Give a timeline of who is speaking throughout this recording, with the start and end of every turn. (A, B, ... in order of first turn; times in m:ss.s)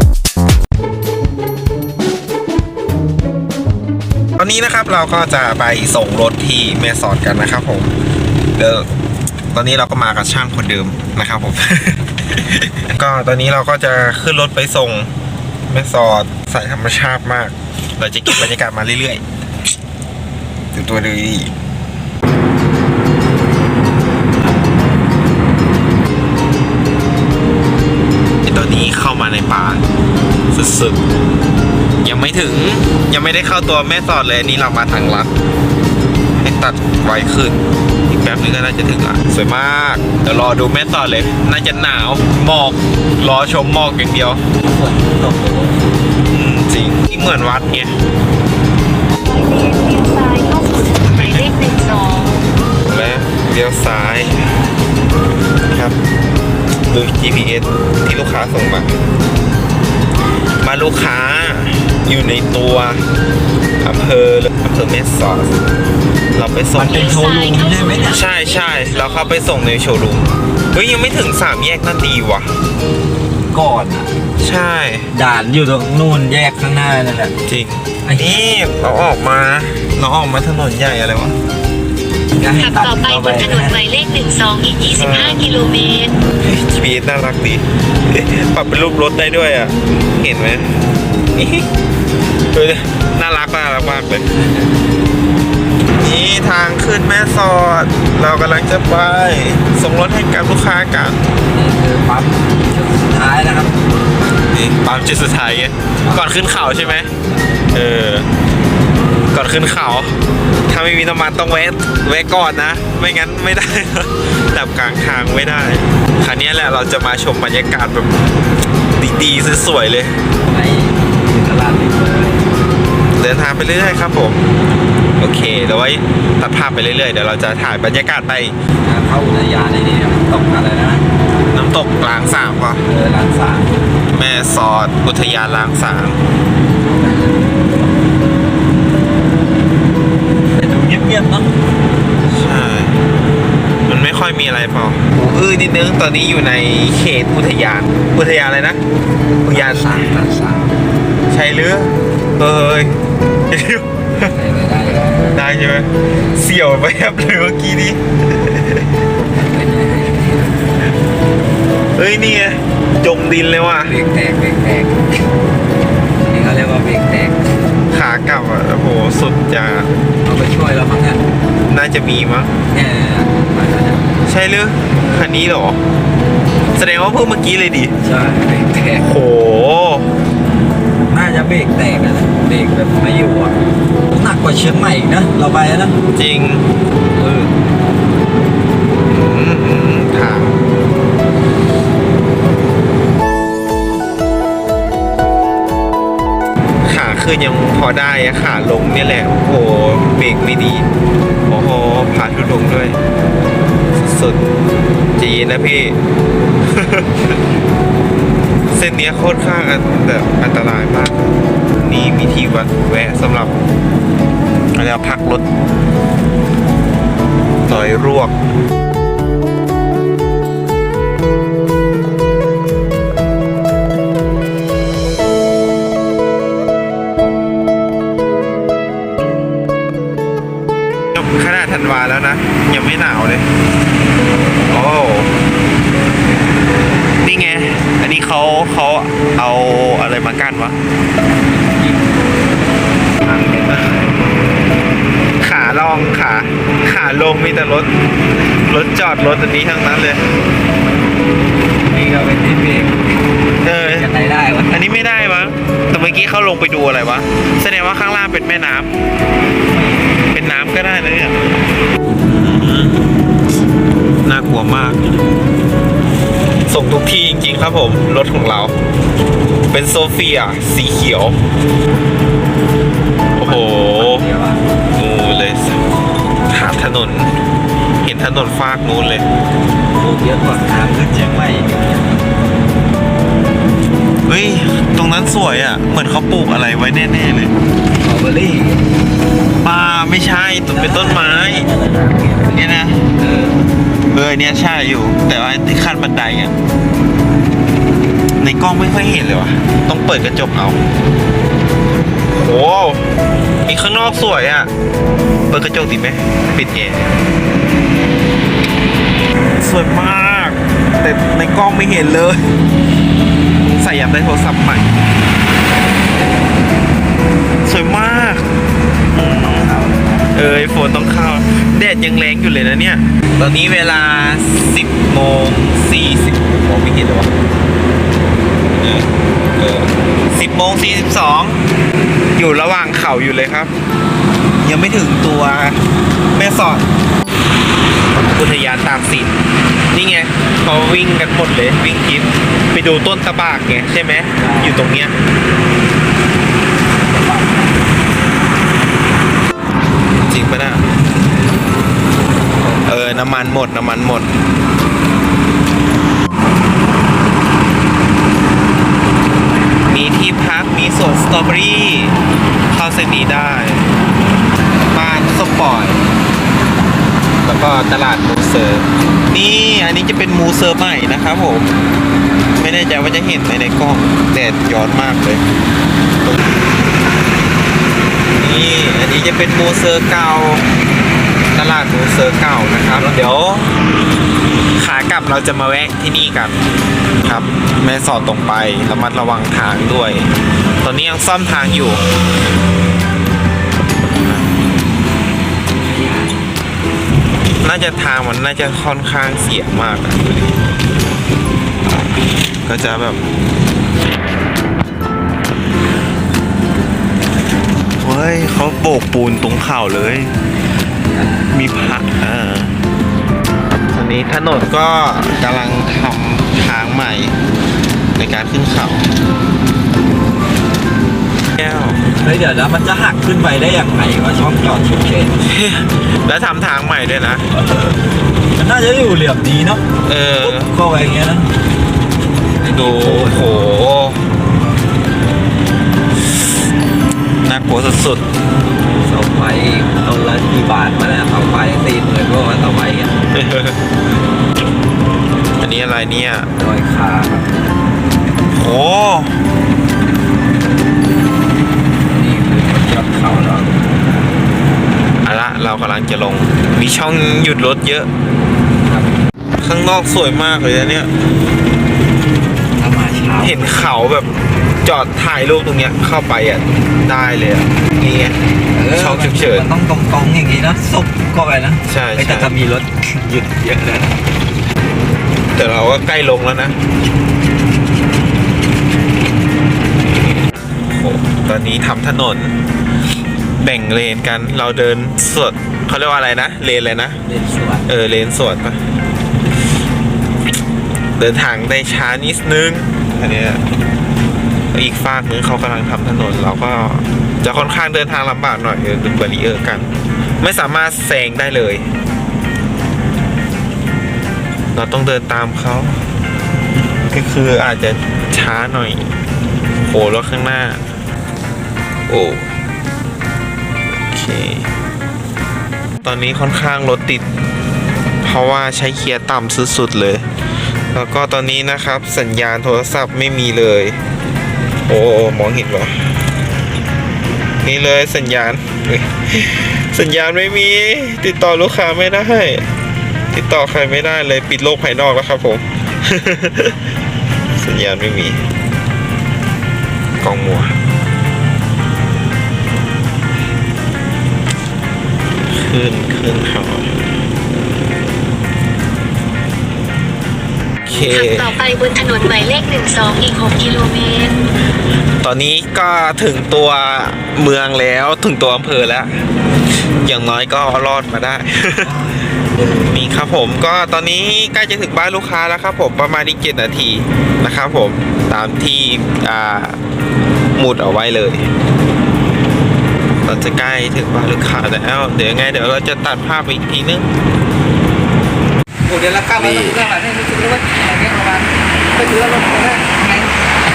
0:04.4-0:08.0 A
0:08.6-0:08.9 A
0:09.5-0:15.1 A
0:15.7-0:19.2 A
0:20.7-0:21.5 A
0:28.4-0:29.9 A
0:30.5-0:31.0 A
0:32.0-0:35.3 A
0:36.4-0:44.4 A
0:44.6-0:46.0 B
0:46.3-0:48.0 A
0:49.2-0:52.4 C
0:51.1-0:51.5 A
0:52.9-0:54.5 A
0:55.7-0:56.0 A
0:56.9-0:59.0 A
1:00.6-1:03.0 A
1:03.8-1:05.6 A
1:06.3-1:07.3 A
1:06.8-1:08.2 B
1:06.8-1:09.4 C
1:08.0-1:12.6 A
1:13.5-1:14.1 B
1:14.4-1:15.1 A
1:15.1-1:17.3 B
1:17.5-1:21.4 A
1:18.0-1:18.4 B
1:22.4-1:23.8 B
1:22.6-1:26.2 C
1:24.9-1:25.6 A
1:26.4-1:31.7 A
1:32.5-1:34.3 A
1:36.0-1:41.2 A
1:41.4-1:43.8 B
1:44.5-1:47.2 A
1:46.0-1:47.8 B
1:47.7-1:48.3 A
1:49.3-1:58.3 A
1:59.0-2:00.2 A
2:00.4-2:02.5 B
2:03.2-2:04.4 A
2:05.2-2:08.6 A
2:08.8-2:11.1 B
2:11.5-2:12.9 A
2:12.9-2:13.8 B
2:14.1-2:16.2 A
2:16.6-2:17.9 B
2:20.5-2:21.5 B
2:22.3-2:23.0 A
2:23.9-2:28.8 A
2:29.4-2:30.7 B
2:29.5-2:30.2 A
2:31.3-2:34.3 A
2:34.3-2:35.4 B
2:35.3-2:38.9 A
2:39.3-2:40.7 B
2:42.0-2:44.0 A
2:43.8-2:45.0 B
2:46.2-2:47.5 B
2:47.9-2:49.9 A
2:50.2-2:51.2 B
2:51.7-2:52.6 A
2:52.7-2:54.1 B
2:54.2-2:55.8 A
2:56.7-2:58.0 A
2:58.0-2:59.1 B
2:59.0-3:00.1 A
3:01.1-3:03.6 B
3:04.1-3:06.0 B
3:06.1-3:06.7 A
3:07.1-3:07.5 B
3:09.1-3:10.6 A
3:16.8-3:20.9 A
3:21.5-3:23.0 A
3:24.0-3:24.4 A
3:25.2-3:26.0 A
3:26.7-3:27.4 A
3:28.7-3:33.6 A
3:34.8-3:35.4 A
3:37.6-3:38.4 A
3:51.2-3:53.5 A
3:54.7-3:55.3 A
3:57.2-4:00.8 A
4:01.5-4:02.2 B
4:03.2-4:04.0 B
4:03.6-4:04.1 A
4:05.4-4:07.9 A
4:08.5-4:10.3 A
4:11.9-4:13.2 B
4:13.6-4:14.1 A
4:13.8-4:14.8 B
4:14.7-4:18.9 A
4:19.7-4:20.1 B
4:20.3-4:21.4 A
4:22.2-4:23.1 A
4:24.2-4:25.1 A
4:26.7-4:28.8 A
4:29.7-4:31.4 A
4:33.3-4:34.3 A
4:33.4-4:34.7 B
4:34.9-4:35.8 A
4:36.5-4:37.4 A
4:38.0-4:39.3 A
4:40.0-4:42.1 B
4:44.3-4:47.5 A
4:48.0-4:49.0 B
4:49.6-4:51.7 A
4:50.7-4:53.6 B
4:52.5-4:53.1 A
4:54.1-4:56.6 A
4:58.4-5:00.8 A
5:02.3-5:03.1 A
5:03.6-5:04.7 A
5:05.5-5:07.2 A
5:09.6-5:12.6 A
5:13.6-5:14.9 A
5:17.6-5:18.5 A
5:19.1-5:19.7 A
5:19.4-5:20.4 B
5:20.3-5:27.3 A
5:28.7-5:31.7 A
5:32.4-5:33.7 A
5:34.6-5:36.9 A
5:38.2-5:39.3 A
5:39.9-5:45.2 A
5:44.4-5:44.9 B
5:47.0-5:47.8 B
5:50.3-5:50.9 A
5:52.6-5:53.5 B
5:52.9-5:54.3 A
5:59.9-6:02.2 A
6:02.7-6:03.9 A
6:04.9-6:06.0 A
6:07.4-6:11.7 A
6:12.6-6:15.4 A
6:18.4-6:20.7 A
6:21.5-6:23.8 A
6:24.8-6:26.6 A
6:27.2-6:30.3 A
6:30.8-6:32.0 A
6:34.2-6:34.6 A
6:35.9-6:36.4 B
6:37.6-6:40.6 A
6:41.8-6:43.2 A
6:48.0-6:50.4 A
6:51.1-6:51.9 B
6:51.5-6:52.8 A
6:53.9-6:57.4 A
6:58.2-6:59.1 A
7:01.6-7:02.1 A
7:02.2-7:05.4 B
7:05.4-7:07.5 A
7:07.5-7:08.0 B
7:08.6-7:09.8 B
7:10.0-7:10.7 A
7:10.4-7:11.5 B
7:12.6-7:13.5 B
7:12.7-7:14.2 A
7:17.4-7:18.2 A
7:19.0-7:23.2 B
7:23.3-7:23.8 A
7:25.6-7:26.5 A
7:26.6-7:27.5 B
7:28.5-7:29.4 A
7:32.0-7:33.8 B
7:35.2-7:38.1 A
7:38.8-7:39.2 B
7:39.6-7:41.1 A
7:42.8-7:43.9 B
7:43.4-7:44.3 A
7:44.8-7:48.4 A
7:48.7-7:54.2 B
7:48.9-7:49.7 A
7:51.9-7:52.6 A
7:55.6-7:56.8 A
8:00.9-8:02.6 A
8:03.6-8:07.2 A
8:07.3-8:07.9 B
8:07.9-8:08.8 A
8:11.2-8:13.6 A
8:14.7-8:21.9 A
8:24.7-8:26.0 A
8:27.1-8:29.1 A
8:29.9-8:30.8 A
8:32.1-8:32.5 A
8:34.1-8:34.7 A
8:36.0-8:37.3 A
8:38.2-8:40.3 A
8:40.9-8:44.0 A
8:44.9-8:46.1 A
8:47.6-8:52.7 A
8:53.3-8:56.8 A
8:57.6-8:58.4 A
9:00.2-9:00.8 A
9:05.5-9:06.9 A
9:10.8-9:11.6 A
9:10.9-9:14.4 C
9:15.2-9:19.2 A
9:20.0-9:22.1 A
9:22.8-9:29.8 A
9:30.6-9:31.5 A
9:33.2-9:37.1 A
9:38.9-9:43.3 B
9:39.3-9:39.9 A